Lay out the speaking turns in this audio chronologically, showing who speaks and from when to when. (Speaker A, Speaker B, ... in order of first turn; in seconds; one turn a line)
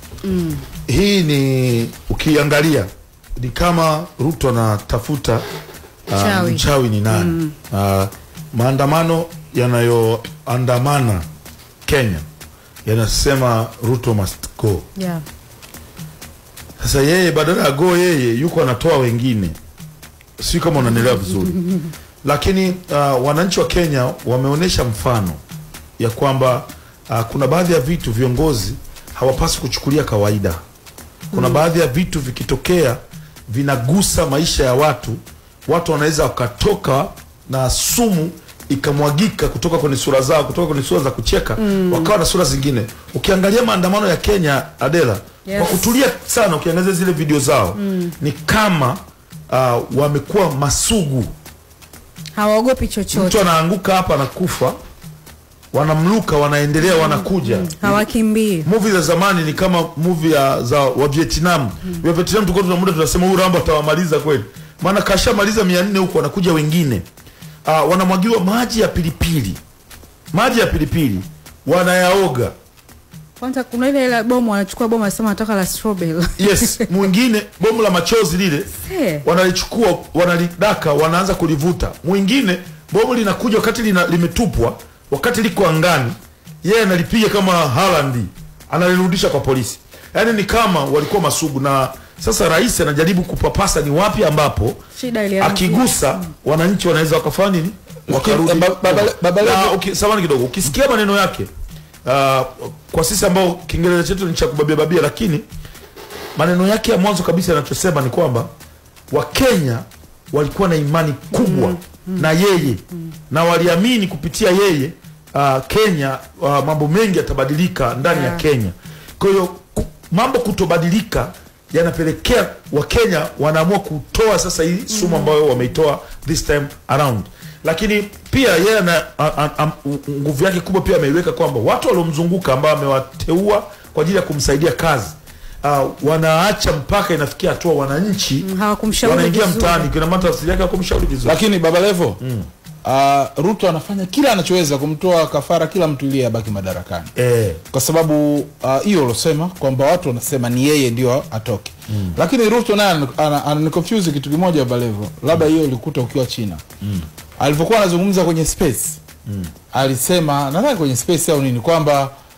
Speaker A: 0.2-0.6
Speaker B: 0.9-5.4
Speaker B: 6.1-11.3
Speaker A: 6.1-7.5
Speaker B: 11.9-12.3
Speaker B: 12.8-14.9
Speaker A: 15.0-15.2
Speaker B: 16.8-19.6
Speaker B: 20.4-21.6
Speaker A: 20.8-21.9
Speaker B: 22.2-25.4
Speaker B: 26.0-30.6
Speaker B: 31.3-51.3
Speaker A: 31.3-31.6
Speaker A: 41.6-42.1
Speaker A: 45.5-45.9
Speaker A: 47.8-48.1
Speaker A: 52.4-53.4
Speaker B: 53.1-54.8
Speaker B: 55.7-58.0
Speaker A: 56.8-58.7
Speaker B: 58.6-67.0
Speaker B: 67.7-69.6
Speaker B: 70.3-72.5
Speaker A: 73.4-76.8
Speaker B: 76.4-78.7
Speaker A: 78.7-79.2
Speaker B: 79.2-94.8
Speaker A: 95.0-96.0
Speaker B: 95.4-101.5
Speaker C: 98.1-99.8
Speaker B: 102.0-105.5
Speaker B: 106.3-108.5
Speaker B: 109.1-138.5
Speaker A: 111.3-112.3
Speaker A: 118.0-118.4
Speaker A: 124.9-125.3
Speaker A: 138.4-139.9
Speaker B: 139.0-141.4
Speaker C: 141.2-142.2
Speaker B: 142.2-142.5
Speaker C: 142.8-147.1
Speaker B: 147.2-147.6
Speaker C: 147.7-156.6
Speaker C: 157.4-159.0
Speaker C: 159.7-162.1